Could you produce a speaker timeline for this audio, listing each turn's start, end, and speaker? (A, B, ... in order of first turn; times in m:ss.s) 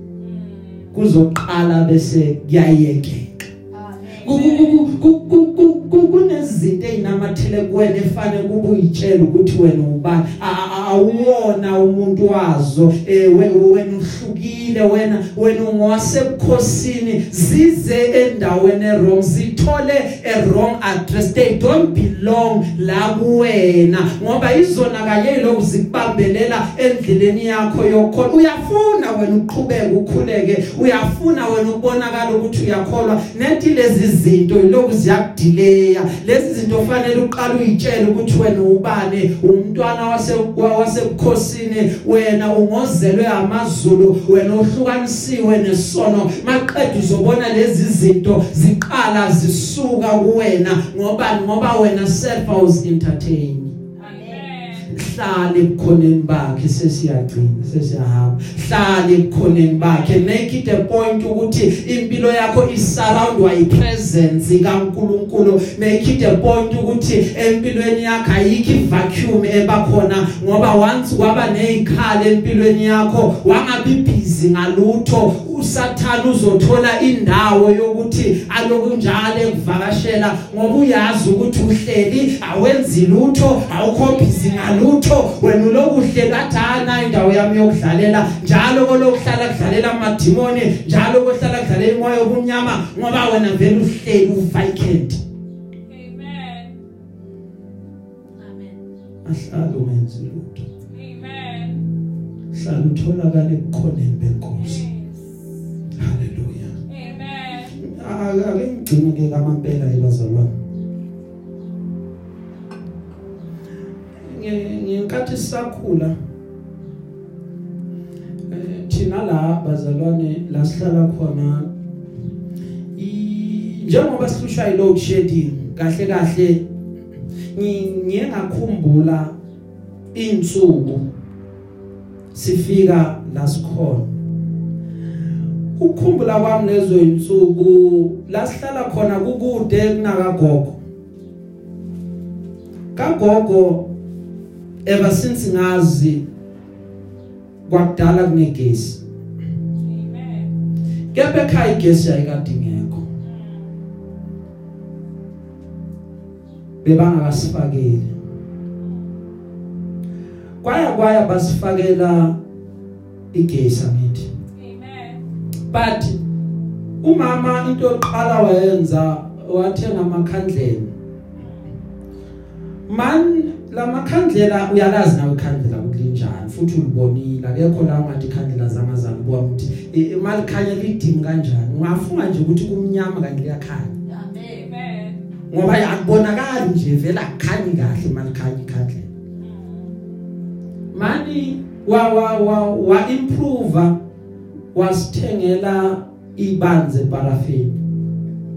0:00.2-0:00.9 A
0:00.9-0:03.5 B
0:03.7-0:04.5 C
0:04.2-0:53.8 B
0:04.2-0:04.8 A
0:54.0-0:54.5 C
0:54.0-0:54.9 A
0:54.9-1:35.2 B
0:59.8-1:00.3 A
1:24.0-1:24.7 A
1:35.9-1:36.8 A
1:38.4-1:38.8 C
1:39.2-1:40.6 B
1:40.9-1:41.9 A
1:42.5-1:44.8 B
1:44.5-1:45.3 A
1:46.0-1:46.8 B
1:46.9-1:47.8 A
1:47.8-1:50.5 B
1:54.2-1:56.1 B
1:58.5-2:01.7 B
2:03.0-2:06.6 B
2:07.6-2:09.3 B
2:10.1-2:11.1 B
2:12.3-2:14.1 B
2:15.8-2:20.8 B
2:23.0-2:23.9 B
2:24.9-2:26.2 B
2:27.7-2:29.0 B
2:29.8-2:30.5 A
2:31.1-2:33.0 B
2:33.3-2:33.6 A
2:36.8-2:38.1 B
2:40.6-2:42.4 B
2:43.3-2:44.3 B
2:44.6-2:45.2 A
2:45.7-2:46.2 B
2:47.0-2:50.9 B
2:51.4-2:51.6 A
2:52.9-3:04.0 B
3:04.1-3:04.7 C
3:04.5-3:05.2 A
3:05.5-3:09.1 B
3:09.5-3:09.9 A
3:10.9-3:14.0 B
3:14.7-3:17.8 B